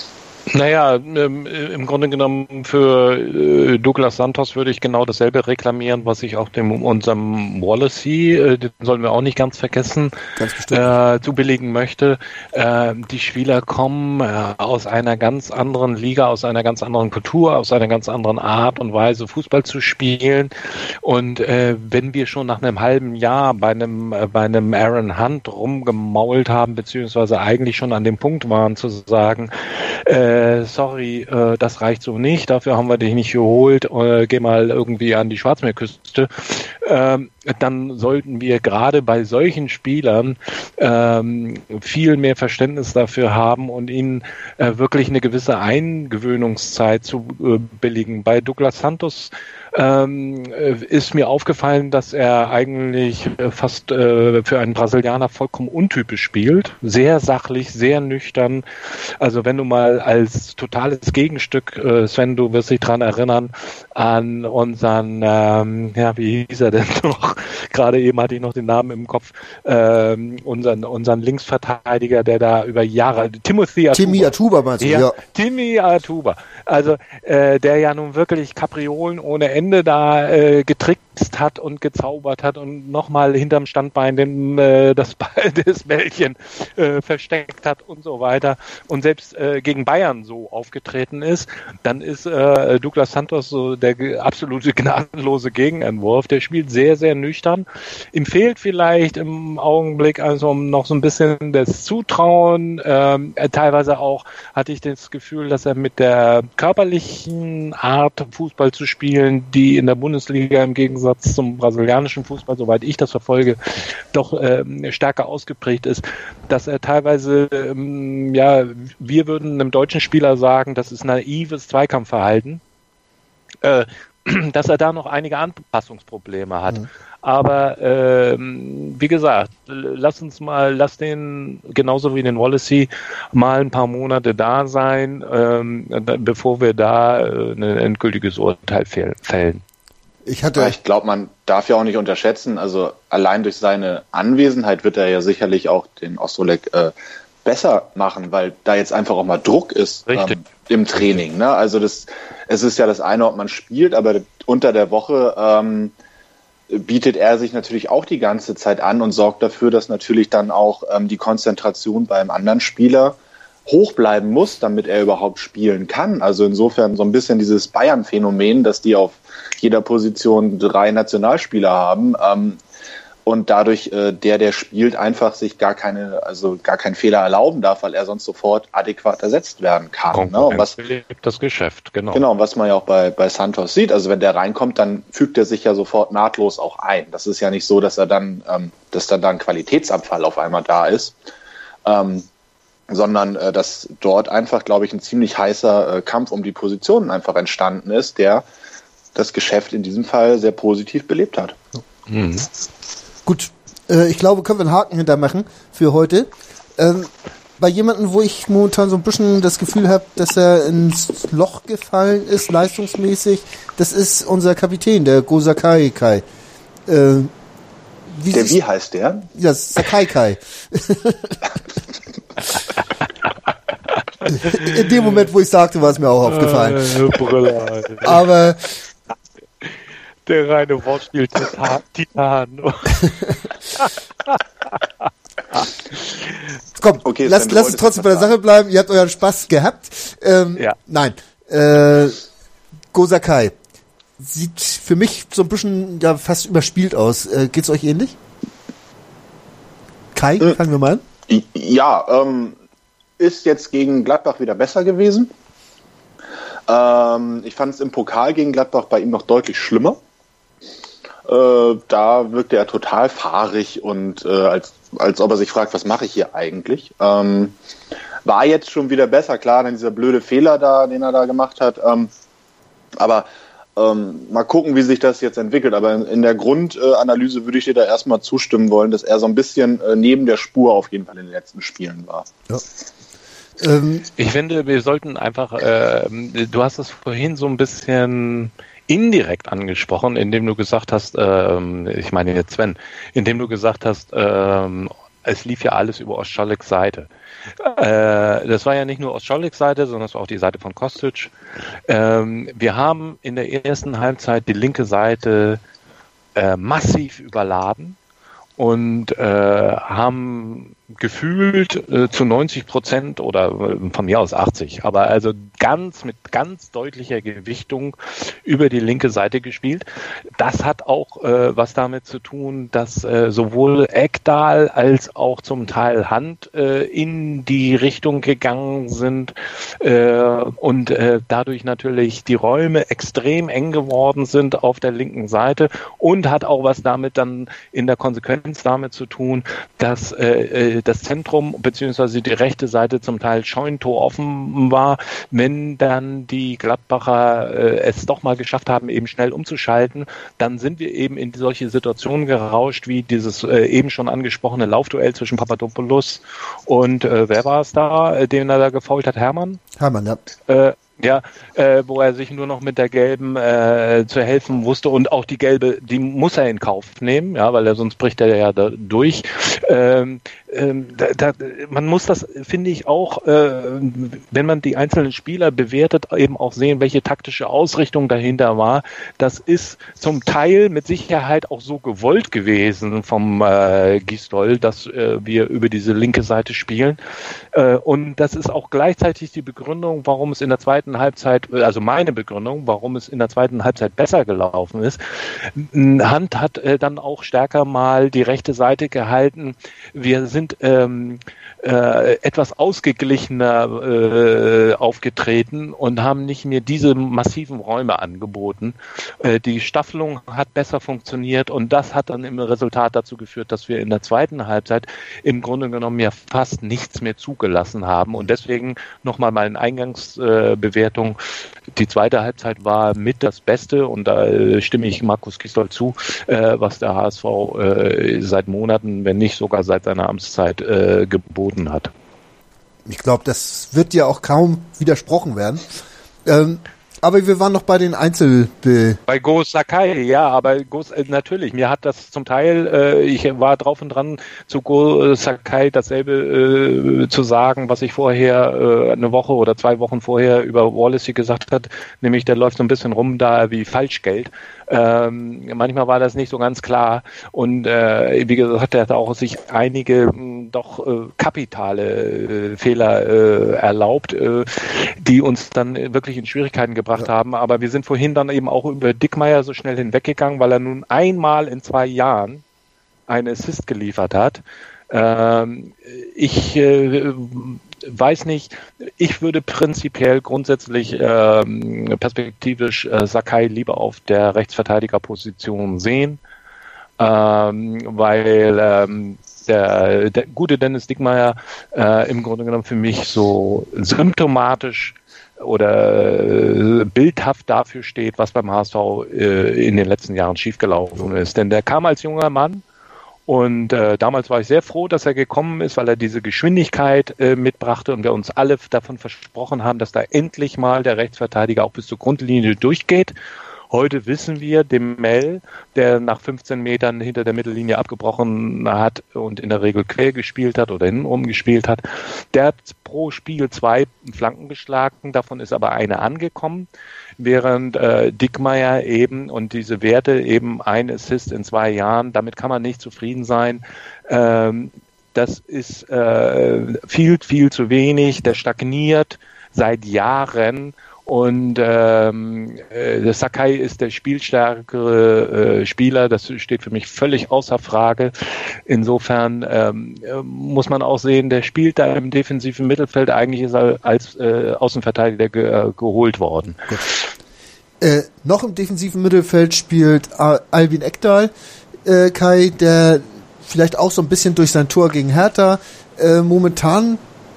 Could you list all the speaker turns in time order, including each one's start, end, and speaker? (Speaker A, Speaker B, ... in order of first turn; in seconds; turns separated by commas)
Speaker A: 0.5-10.2, Speaker B: 10.4-10.9, Speaker A: 10.7-58.6, Speaker A: 59.2-122.6, Speaker B: 73.9-75.2, Speaker A: 123.6-139.6, Speaker B: 140.2-140.8, Speaker C: 140.6-146.9, Speaker C: 147.4-155.9, Speaker A: 150.1-150.4, Speaker C: 156.7-172.6, Speaker C: 173.2-180.7, Speaker A: 180.1-182.2, Speaker C: 182.1-191.2, Speaker C: 191.8-192.3, Speaker C: 192.9-198.4, Speaker C: 199.2-201.6, Speaker A: 202.1-202.5, Speaker B: 203.2-216.2, Speaker B: 216.9-217.3, Speaker B: 218.1-218.6, Speaker C: 218.3-219.3, Speaker B: 219.3-221.4, Speaker A: 224.3-225.1, Speaker B: 224.3-226.9, Speaker A: 226.2-228.2, Speaker B: 228.0-228.7, Speaker A: 230.3-233.1, Speaker B: 233.0-233.3, Speaker A: 233.7-234.4, Speaker B: 236.8-242.2, Speaker C: 237.0-238.3, Speaker B: 242.9-243.6, Speaker B: 244.2-248.2, Speaker B: 250.1-251.0, Speaker C: 251.3-252.6, Speaker C: 253.2-255.3, Speaker C: 256.7-260.0, Speaker C: 261.3-267.6, Speaker C: 268.2-272.1, Speaker C: 273.0-282.3, Speaker B: 283.6-284.1, Speaker A: 284.2-297.1, Speaker A: 297.6-301.3, Speaker A: 301.9-305.6, Speaker A: 306.4-308.0, Speaker A: 308.6-319.9, Speaker A: 320.4-359.6, Speaker B: 359.8-360.2, Speaker A: 360.5-387.0, Speaker A: 387.5-421.2, Speaker A: 421.7-431.9, Speaker B: 432.9-435.7, Speaker B: 436.2-439.0, Speaker A: 439.1-472.4, Speaker A: 473.1-486.2, Speaker A: 487.0-502.6, Speaker A: 503.3-513.1, Speaker A: 513.7-521.8, Speaker A: 522.3-526.7, Speaker A: 527.2-548.1, Speaker A: 548.7-556.7, Speaker B: 557.8-561.3, Speaker B: 561.9-567.0